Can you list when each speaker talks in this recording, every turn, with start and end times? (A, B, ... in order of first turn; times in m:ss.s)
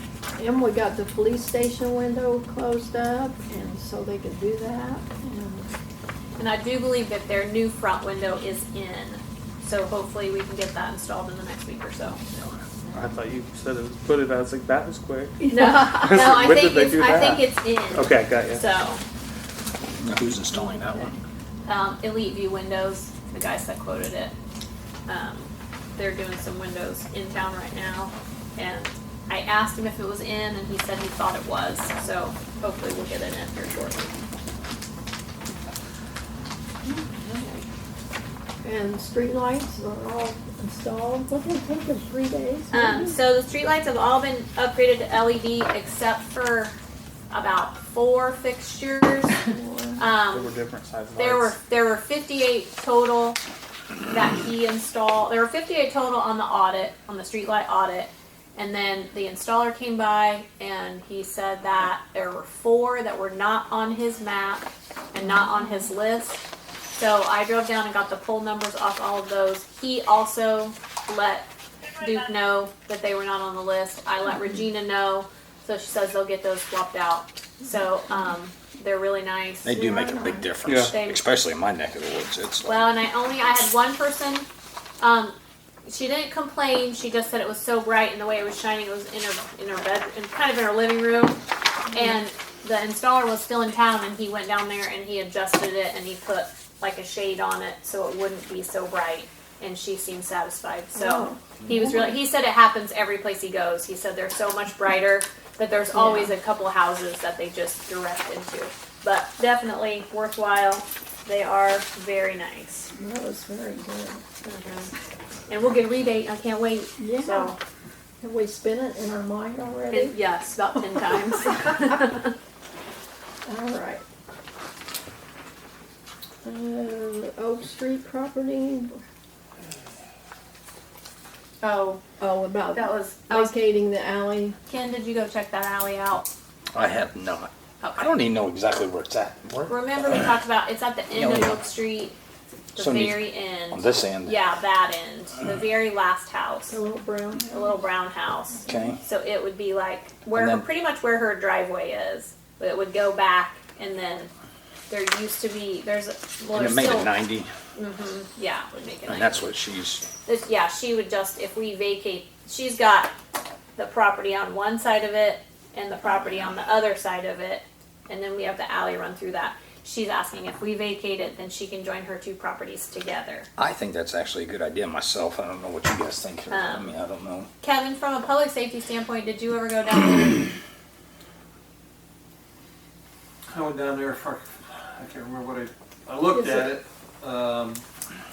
0:00.4-0:05.7 A
0:06.4-0:12.2 B
0:12.9-0:18.6 C
0:15.4-0:15.9 A
0:15.5-0:19.0 B
0:20.0-0:21.2 D
0:21.7-0:24.3 B
0:25.1-0:34.1 B
0:37.4-0:37.6 B
0:38.6-0:43.2 A
0:42.7-0:46.7 B
0:47.3-0:49.4 B
0:49.5-0:50.1 A
0:50.0-0:50.5 B
0:50.3-0:51.3 C
0:51.2-0:53.4 B
0:54.1-1:06.4 B
1:07.0-1:19.8 B
1:19.6-1:22.8 D
1:19.7-1:20.5 A
1:20.6-1:20.9 C
1:20.9-1:21.2 B
1:22.6-1:24.5 B
1:25.0-1:25.4 B
1:25.9-1:52.9 B
1:40.9-1:42.0 A
1:45.9-1:46.3 A
1:53.0-1:54.2 A
1:54.4-1:54.9 B
1:55.5-1:57.6 B
1:57.0-1:57.6 A
1:58.2-2:00.2 A
1:59.9-2:02.4 B
2:03.4-2:04.0 A
2:06.4-2:09.0 A
2:11.6-2:12.0 B
2:12.0-2:14.6 A
2:12.7-2:13.6 B
2:14.7-2:16.3 B
2:16.8-2:20.3 D
2:17.8-2:18.1 B
2:19.7-2:22.2 B
2:21.1-2:21.6 D
2:22.8-2:26.8 B
2:22.8-2:24.4 D
2:26.7-2:27.5 A
2:27.5-2:34.3 B
2:28.7-2:29.0 D
2:30.3-2:30.7 D
2:34.9-2:37.1 B
2:36.5-2:37.5 D
2:37.8-2:39.4 B
2:39.1-2:40.0 D
2:40.2-2:43.1 B
2:43.8-2:53.5 B
2:53.6-2:57.5 D
2:56.5-2:56.9 B
2:57.6-3:00.5 B
3:03.5-3:07.8 E
3:06.3-3:06.7 A